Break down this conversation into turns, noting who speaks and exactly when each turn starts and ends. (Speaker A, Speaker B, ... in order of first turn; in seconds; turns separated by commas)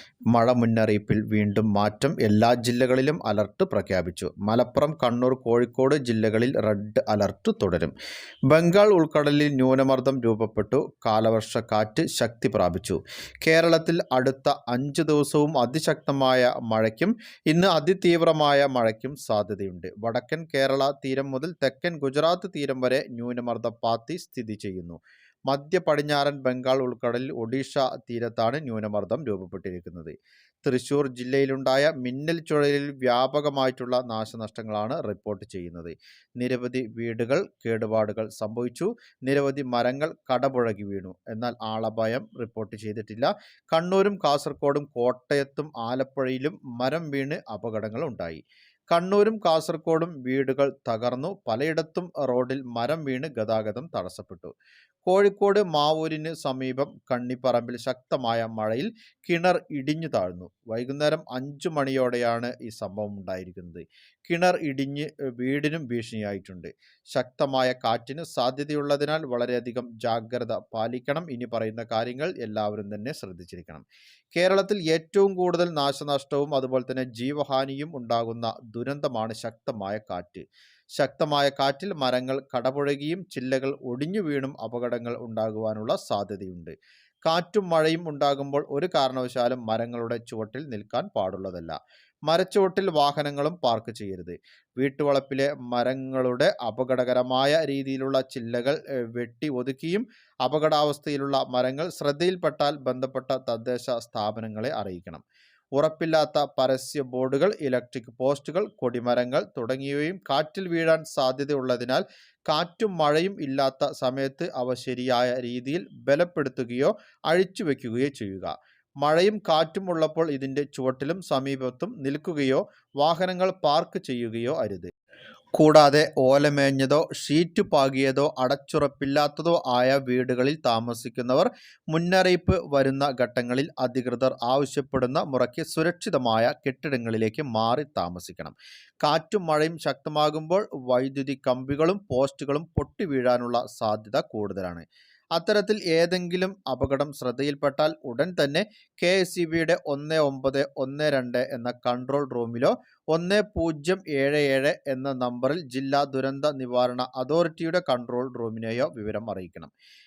Speaker A: 0.3-7.9, Speaker A: 8.5-25.0, Speaker A: 25.5-54.5, Speaker A: 55.1-73.8, Speaker A: 74.3-80.4, Speaker A: 81.0-86.7, Speaker A: 87.2-91.8, Speaker A: 92.3-105.2, Speaker A: 105.8-124.9, Speaker A: 125.6-144.8, Speaker A: 145.4-159.7